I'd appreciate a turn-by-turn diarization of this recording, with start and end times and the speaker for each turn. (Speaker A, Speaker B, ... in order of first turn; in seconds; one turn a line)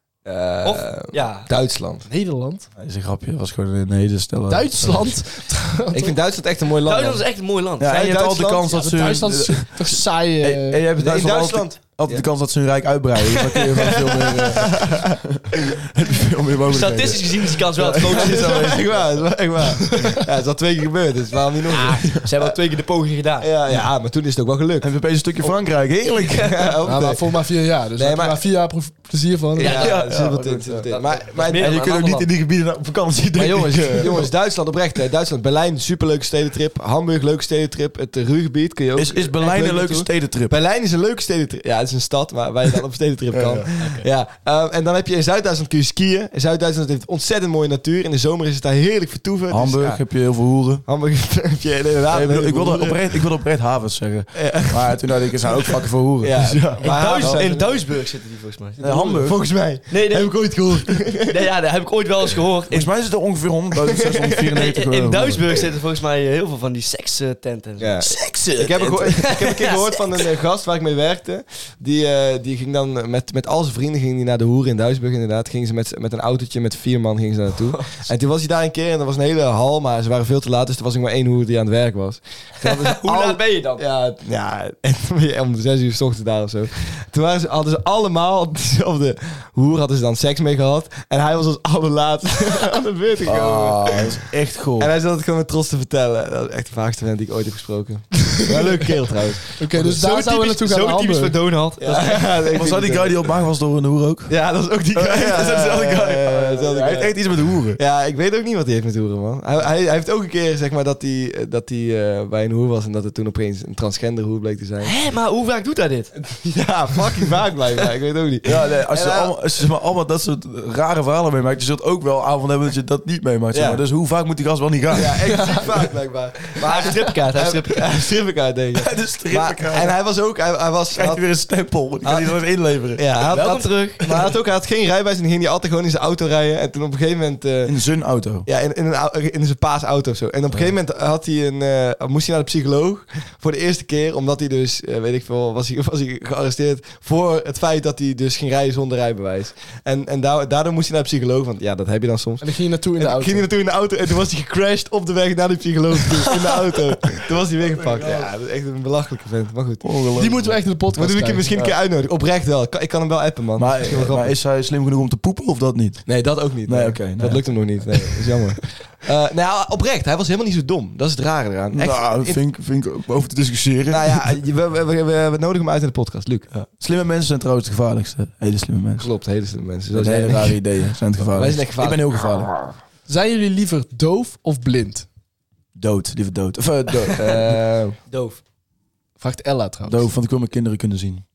Speaker A: 0.2-2.1
Speaker B: 0.6-1.5
Speaker C: 2.1-2.7
Speaker D: 2.8-5.2
Speaker C: 4.5-6.2
Speaker A: 5.9-7.2
Speaker B: 6.8-8.0
Speaker D: 7.8-18.9
Speaker A: 7.9-8.7
Speaker C: 8.7-10.9
Speaker A: 11.0-12.2
Speaker A: 13.9-15.2
Speaker B: 16.7-18.7
Speaker A: 17.9-22.3
Speaker C: 19.8-20.2
Speaker B: 21.7-23.5
Speaker A: 23.4-24.9
Speaker D: 24.8-26.6
Speaker A: 26.4-27.4
Speaker C: 26.8-29.9
Speaker A: 28.0-28.4
Speaker A: 29.6-31.8
Speaker B: 29.6-30.0
Speaker D: 29.7-34.3
Speaker B: 31.3-32.3
Speaker A: 33.4-50.0
Speaker D: 39.0-40.5
Speaker D: 43.3-43.7
Speaker B: 43.8-44.1
Speaker D: 49.5-50.8
Speaker A: 50.9-53.2
Speaker D: 52.1-57.4
Speaker A: 54.4-57.9
Speaker B: 56.8-59.1
Speaker D: 58.8-59.4
Speaker A: 58.8-61.4
Speaker B: 59.9-60.6
Speaker B: 61.3-62.9
Speaker D: 62.7-65.6
Speaker A: 63.9-64.5
Speaker B: 64.5-70.3
Speaker A: 67.8-94.1
Speaker D: 68.1-69.0
Speaker B: 82.6-83.8
Speaker D: 93.2-94.9
Speaker A: 94.8-99.5
Speaker C: 99.6-101.5
Speaker B: 99.7-102.4
Speaker A: 101.8-103.3
Speaker D: 102.5-107.8
Speaker A: 104.3-114.9
Speaker B: 114.8-116.1
Speaker A: 116.1-119.3
Speaker D: 118.4-125.2
Speaker A: 123.5-123.8
Speaker A: 124.9-131.2
Speaker C: 125.3-125.7
Speaker B: 126.6-127.9
Speaker D: 128.8-129.9
Speaker D: 130.9-133.3
Speaker A: 132.0-132.4
Speaker A: 132.9-137.8
Speaker B: 133.3-134.1
Speaker D: 137.7-138.5
Speaker A: 138.4-160.4
Speaker C: 152.4-153.5
Speaker D: 156.7-157.2
Speaker D: 157.8-158.3
Speaker D: 159.8-160.6
Speaker C: 160.1-161.5
Speaker A: 160.9-164.3
Speaker D: 161.5-161.8
Speaker D: 163.6-168.2
Speaker A: 166.1-172.4
Speaker D: 171.7-174.4
Speaker A: 173.9-176.5
Speaker D: 176.5-179.1
Speaker A: 179.0-180.6
Speaker D: 179.9-182.7
Speaker A: 181.2-182.3
Speaker C: 183.1-185.1
Speaker D: 185.8-187.6
Speaker A: 187.2-188.0
Speaker B: 188.1-188.4
Speaker C: 189.2-190.1
Speaker D: 189.9-191.2